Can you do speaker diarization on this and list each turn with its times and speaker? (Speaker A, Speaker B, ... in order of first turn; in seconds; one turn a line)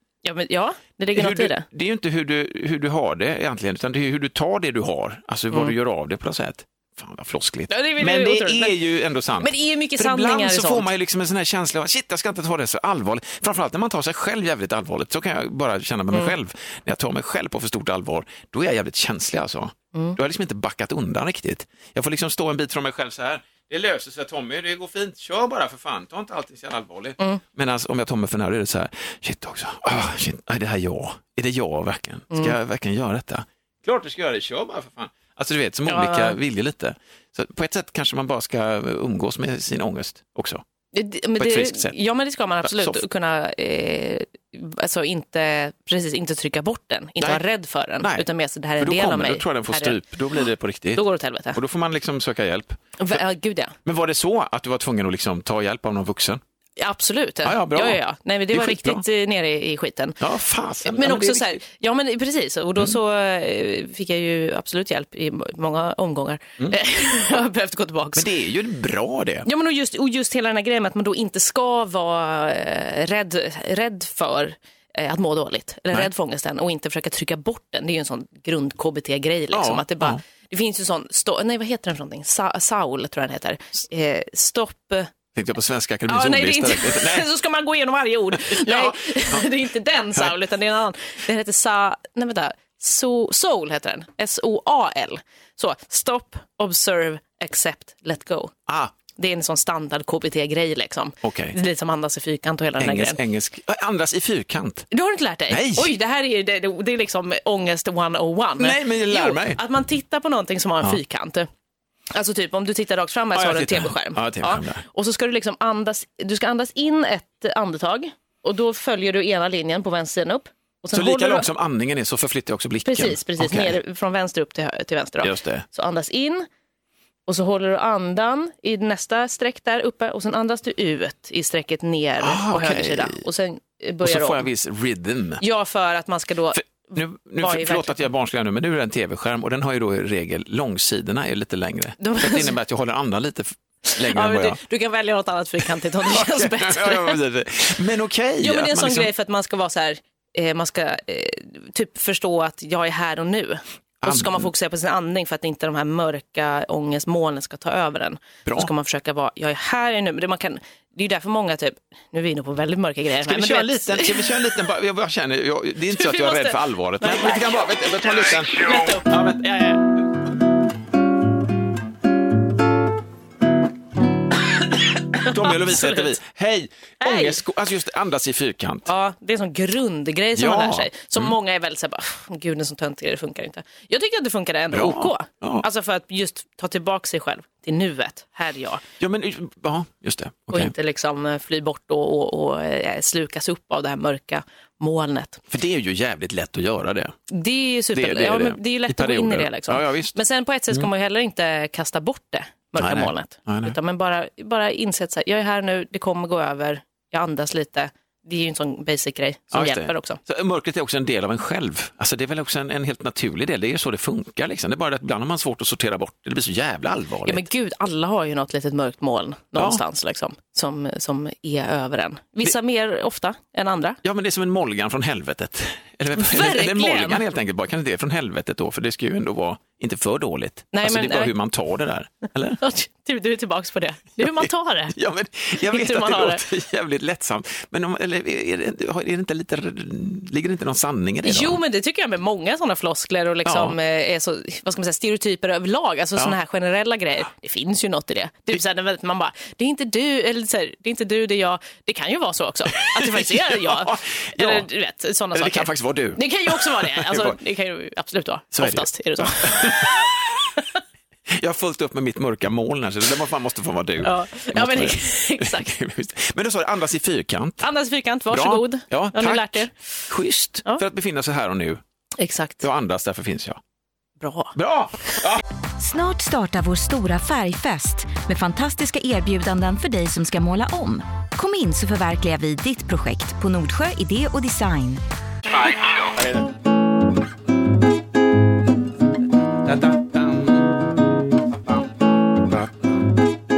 Speaker A: 0.2-1.6
Speaker B: 1.1-40.6
Speaker A: 7.7-8.8
Speaker A: 9.4-10.9
Speaker A: 32.3-32.6
Speaker A: 35.9-36.4
Speaker A: 40.9-50.0
Speaker B: 41.4-42.0
Speaker B: 42.6-43.0
Speaker B: 48.0-51.0
Speaker A: 50.9-51.6
Speaker B: 51.5-53.2
Speaker A: 53.0-53.8
Speaker B: 53.9-56.4
Speaker A: 56.8-60.2
Speaker B: 57.4-58.0
Speaker B: 58.5-59.0
Speaker B: 60.2-61.6
Speaker A: 60.8-68.3
Speaker B: 68.2-69.5
Speaker A: 69.4-85.1
Speaker B: 79.5-80.2
Speaker B: 85.3-87.3
Speaker A: 86.1-98.5
Speaker B: 88.3-89.5
Speaker B: 98.7-98.9
Speaker A: 99.2-103.2
Speaker B: 101.2-101.6
Speaker B: 102.8-104.9
Speaker A: 104.9-111.5
Speaker B: 105.5-105.9
Speaker B: 108.6-109.6
Speaker A: 112.1-121.5
Speaker B: 113.3-114.8
Speaker B: 120.9-123.8
Speaker A: 122.8-126.5
Speaker B: 125.2-125.6
Speaker A: 127.2-134.4
Speaker B: 132.2-133.2
Speaker B: 134.0-135.4
Speaker A: 135.4-138.1
Speaker B: 136.6-144.6
Speaker A: 142.0-142.6
Speaker A: 143.8-147.2
Speaker B: 145.7-149.1
Speaker A: 148.4-164.3
Speaker B: 154.0-154.5
Speaker B: 158.4-158.7
Speaker B: 163.2-169.8
Speaker A: 165.9-167.7
Speaker A: 168.4-169.8
Speaker A: 175.1-176.1
Speaker B: 175.2-178.9
Speaker A: 177.0-177.4
Speaker A: 178.8-188.8
Speaker B: 180.3-181.3
Speaker B: 184.7-185.7
Speaker B: 189.0-190.7
Speaker A: 190.5-195.4
Speaker B: 195.5-197.2
Speaker A: 197.3-210.2
Speaker B: 197.9-200.2
Speaker B: 202.8-203.8
Speaker B: 209.5-217.4
Speaker A: 217.2-224.0
Speaker B: 219.6-219.8
Speaker B: 224.0-232.6
Speaker A: 226.2-227.2
Speaker A: 230.7-231.3
Speaker A: 232.6-234.9
Speaker B: 234.2-241.6
Speaker A: 235.6-236.4
Speaker A: 241.2-259.9
Speaker B: 243.4-243.8
Speaker B: 252.8-254.7
Speaker B: 255.3-257.4
Speaker B: 258.5-260.4
Speaker B: 261.3-267.6
Speaker A: 264.0-265.7
Speaker A: 267.6-269.7
Speaker B: 268.3-271.8
Speaker A: 272.2-272.7
Speaker B: 272.6-273.6
Speaker A: 274.2-274.6
Speaker B: 274.6-275.4
Speaker C: 275.8-285.0
Speaker B: 285.6-286.4
Speaker B: 289.6-290.7